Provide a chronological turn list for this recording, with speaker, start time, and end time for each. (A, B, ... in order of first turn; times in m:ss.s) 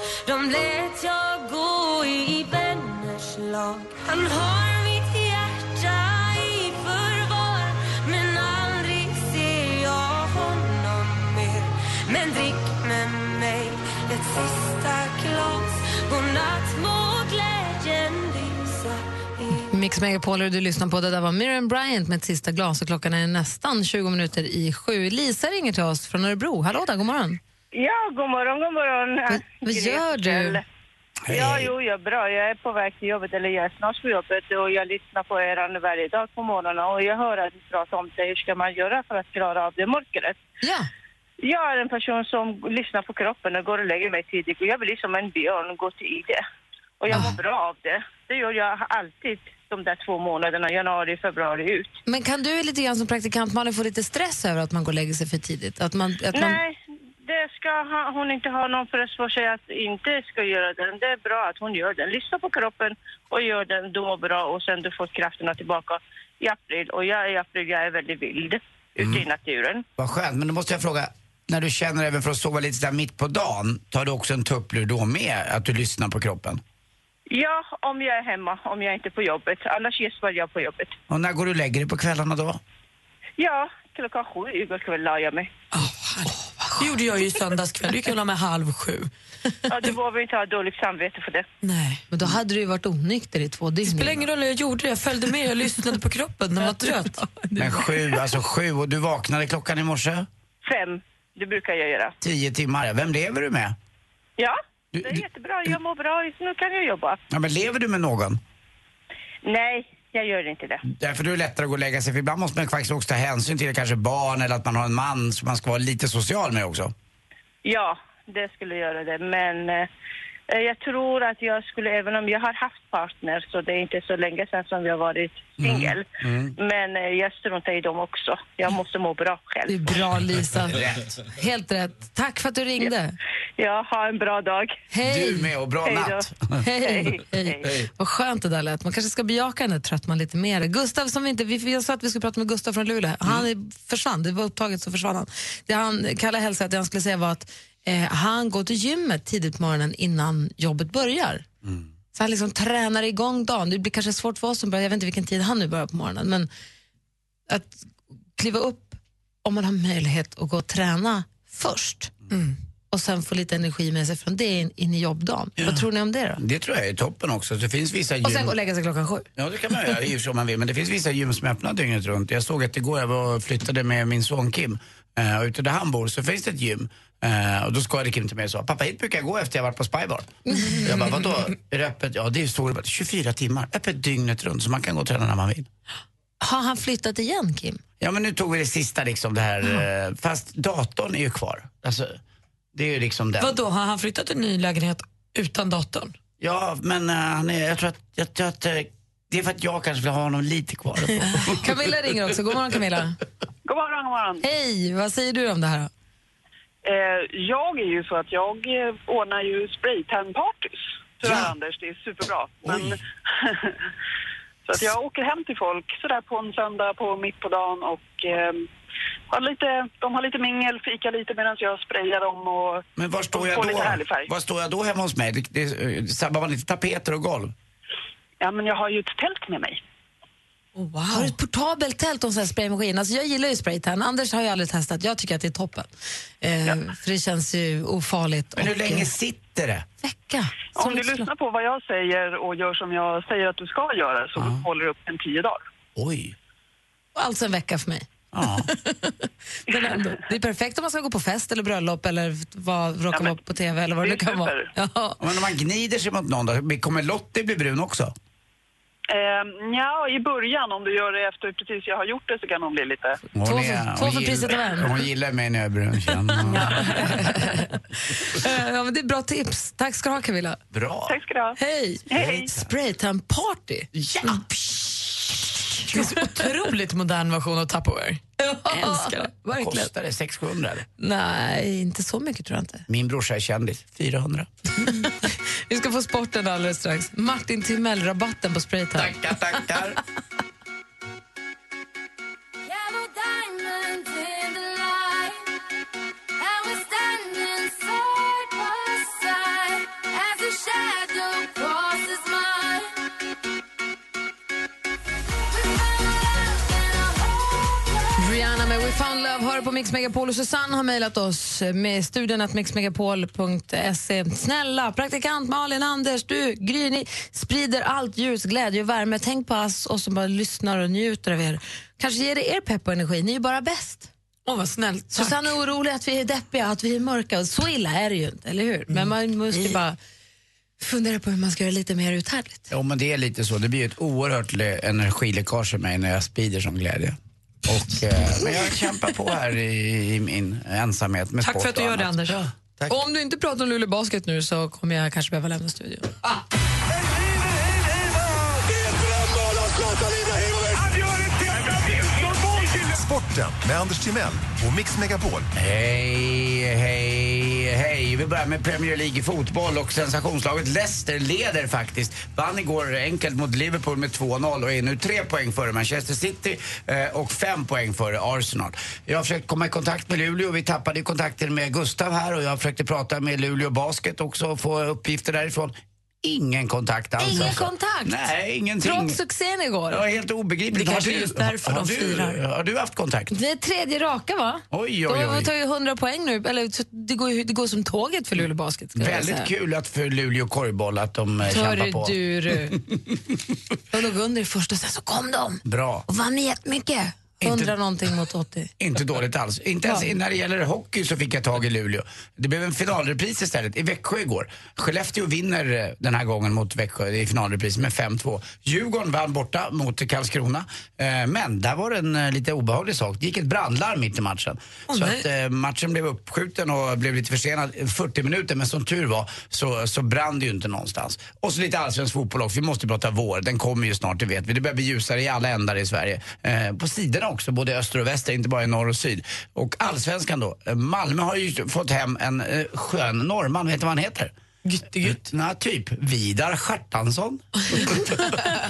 0:06.8-0:07.4 A
0:08.2-0:09.2 A
0:09.8-0:10.9 A
0:16.4-0:16.7 A
0:19.6-0:27.4 B
0:27.7-0:30.6 C
0:29.3-0:30.6 B
0:31.2-0:31.7 D
0:31.3-0:40.4 C
0:40.6-0:40.9 B
0:41.4-0:46.4 C
0:47.0-0:52.0 C
0:52.1-0:56.6 B
0:56.3-1:09.8 C
1:09.0-1:09.2 D
1:10.0-1:16.6 D
1:17.3-1:20.9 C
1:21.1-1:22.6 D
1:23.4-1:25.5 C
1:25.7-1:29.1 E
1:29.7-1:31.4 C
1:31.6-1:32.0 E
1:32.1-1:34.2 B
1:33.8-1:37.2 E
1:36.7-1:37.9 B
1:37.6-1:40.3 D
1:40.6-1:42.1 C
1:42.2-1:43.8 D
1:44.4-1:47.2 C
1:44.9-1:45.7 D
1:47.3-1:48.4 D
1:49.4-1:50.8 C
1:50.8-1:56.9 D
1:57.6-1:59.9 C
2:00.5-2:06.0 C
2:05.6-2:06.6 D
2:06.6-2:09.7 C
2:09.7-2:13.2 B
2:10.6-2:11.1 D
2:13.6-2:14.7 C
2:14.9-2:15.5 B
2:15.0-2:16.6 D
2:15.8-2:16.2 C
2:16.6-2:31.4 B
2:16.8-2:17.8 C
2:32.1-2:36.5 B
2:37.5-2:37.8 B
2:38.4-2:42.1 B
2:42.3-2:42.6 E
2:42.9-2:46.4 B
2:46.4-2:48.6 D
2:48.2-2:49.3 B
2:49.4-3:05.7 D
3:00.5-3:00.8 B
3:06.4-3:07.8 B
3:08.0-3:12.2 D
3:12.7-3:13.6 D
3:13.4-3:16.1 E
3:16.4-3:21.6 D
3:21.5-3:23.2 B
3:23.6-3:24.4 F
3:24.4-3:25.9 B
3:26.8-3:33.7 F
3:34.6-3:38.7 F
3:39.3-3:44.3 F
3:43.0-3:47.5 D
3:48.4-3:49.8 F
3:50.8-3:51.3 E
3:51.1-3:55.9 B
3:56.4-3:59.1 B
3:58.6-3:59.8 D
4:00.0-4:01.3 B
4:00.7-4:05.6 F
4:06.0-4:06.4 D
4:07.1-4:08.0 B
4:08.3-4:08.7 D
4:08.7-4:15.2 B
4:13.1-4:13.4 F
4:14.0-4:14.7 F
4:15.2-4:18.1 D
4:19.1-4:23.2 F
4:23.3-4:27.3 D
4:23.4-4:24.9 B
4:26.5-4:27.3 F
4:26.9-4:30.6 B
4:30.7-4:31.2 D
4:31.1-4:31.6 F
4:31.6-4:36.4 B
4:32.1-4:32.5 F
4:32.2-4:32.6 D
4:33.9-4:34.4 D
4:35.9-4:39.3 E
4:38.6-4:39.9 B
4:39.5-4:40.8 D
4:41.0-4:42.8 B
4:42.9-4:44.5 D
4:45.0-4:49.3 B
4:48.9-4:50.0 D
5:01.5-5:02.1 B
5:08.2-5:24.1 B
5:24.5-5:25.4 E
5:25.1-5:30.0 B
5:30.8-5:32.7 B
5:32.7-5:42.4 D
5:41.4-5:42.4 E
5:42.9-5:46.1 B
5:49.3-5:55.5 G
5:55.5-6:19.2 D
6:17.2-6:18.2 B
6:18.8-6:20.0 B
6:19.9-6:23.3 D
6:20.7-6:22.4 E
6:23.3-6:29.5 B
6:24.7-6:25.5 D
6:29.0-6:32.2 D
6:31.4-6:32.8 B
6:33.9-6:38.7 B
6:35.6-6:36.0 D
6:37.4-6:37.7 D
6:38.8-7:14.3 D
6:54.9-6:55.2 E
7:14.7-7:15.2 E
7:15.0-7:18.6 D